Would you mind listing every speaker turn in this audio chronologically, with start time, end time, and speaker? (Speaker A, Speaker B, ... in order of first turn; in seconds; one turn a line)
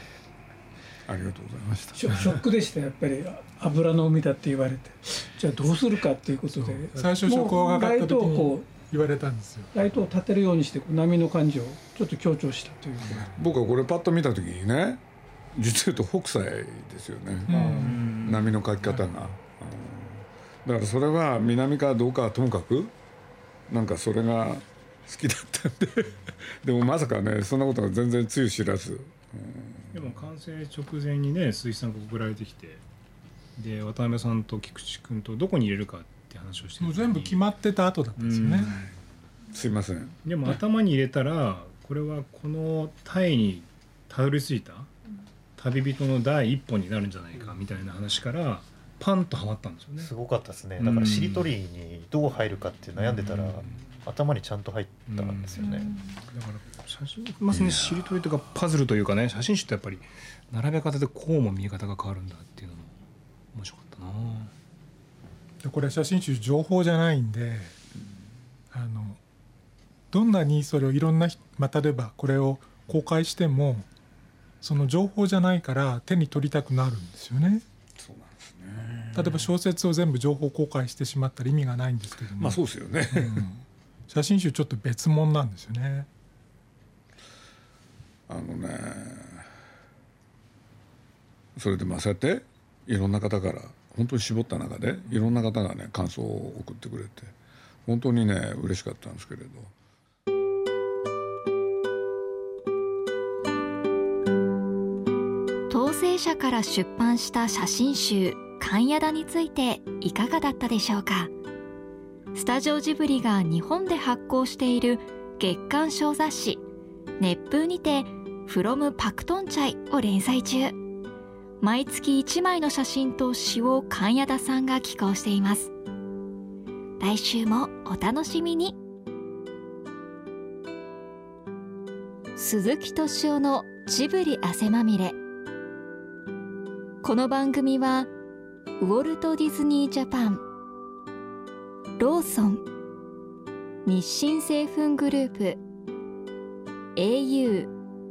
Speaker A: 1.1-2.4
Speaker B: 1.9-8.7
Speaker C: 6.9-9.7
Speaker B: 9.7-13.3
Speaker A: 13.3-15.0
Speaker A: 15.5-22.9
Speaker C: 17.5-18.1
Speaker D: 17.5-18.8
Speaker A: 23.7-29.9
Speaker D: 29.9-32.8
Speaker D: 33.6-37.5
Speaker C: 36.8-38.8
Speaker D: 38.2-38.9
Speaker A: 39.5-40.2
Speaker D: 40.2-44.9
Speaker D: 45.6-50.1
Speaker E: 50.0-55.9
Speaker D: 50.8-51.5
Speaker D: 55.1-63.0
Speaker A: 57.5-58.1
Speaker D: 63.5-64.5
Speaker C: 65.6-67.8
Speaker C: 68.7-69.2
Speaker C: 70.1-73.9
Speaker C: 74.6-77.6
Speaker A: 78.0-79.5
Speaker C: 79.1-86.1
Speaker A: 82.4-83.5
Speaker A: 88.3-89.5
Speaker A: 91.6-97.3
Speaker A: 97.9-99.7
Speaker F: 105.7-111.3
Speaker F: 112.3-116.6
Speaker F: 117.2-120.8
Speaker F: 121.6-125.7
Speaker F: 127.0-128.8
Speaker F: 132.4-135.2
Speaker F: 137.0-138.1
Speaker F: 138.8-140.4
Speaker F: 142.0-142.6
Speaker F: 143.8-145.6
Speaker F: 146.9-147.7